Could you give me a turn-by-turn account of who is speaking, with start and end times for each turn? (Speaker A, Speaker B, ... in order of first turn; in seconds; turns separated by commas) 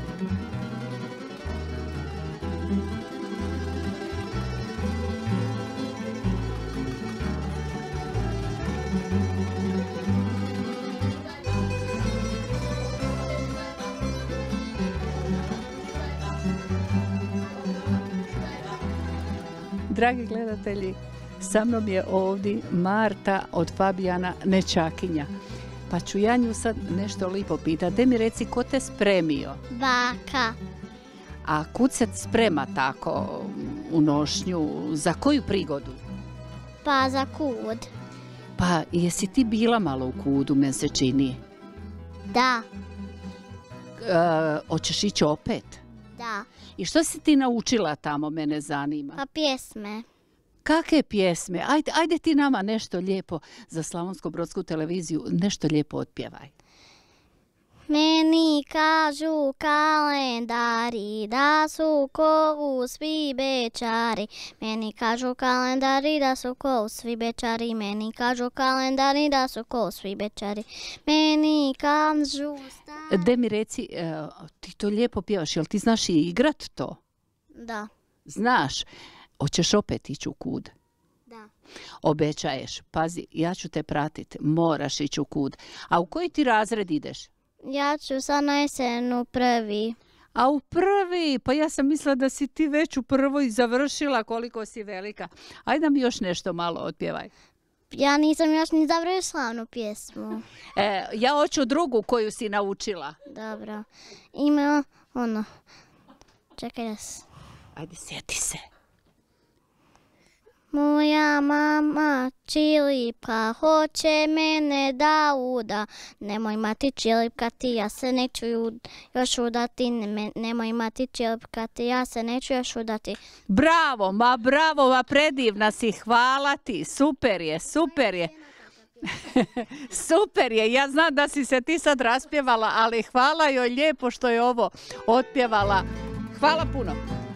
Speaker A: 19.9-25.3, Speaker A: 25.9-29.6, Speaker B: 29.7-30.6, Speaker A: 31.4-36.0, Speaker B: 36.8-37.9, Speaker A: 38.6-41.4, Speaker B: 42.3-42.7, Speaker A: 44.0-45.8, Speaker B: 46.2-46.5, Speaker A: 46.8-49.2, Speaker B: 49.2-50.1, Speaker A: 50.6-56.5, Speaker B: 57.9-73.2, Speaker A: 73.1-77.0, Speaker B: 77.5-77.9, Speaker A: 78.3-78.9, Speaker A: 79.4-80.7, Speaker A: 82.0-87.3, Speaker B: 87.6-90.0, Speaker A: 90.3-97.3, Speaker B: 97.9-100.4, Speaker A: 100.8-103.2, Speaker B: 103.3-105.5, Speaker B: 106.6-107.2, Speaker A: 107.8-108.6, Speaker B: 110.7-123.2, Speaker A: 123.5-128.4, Speaker A: 129.0-137.0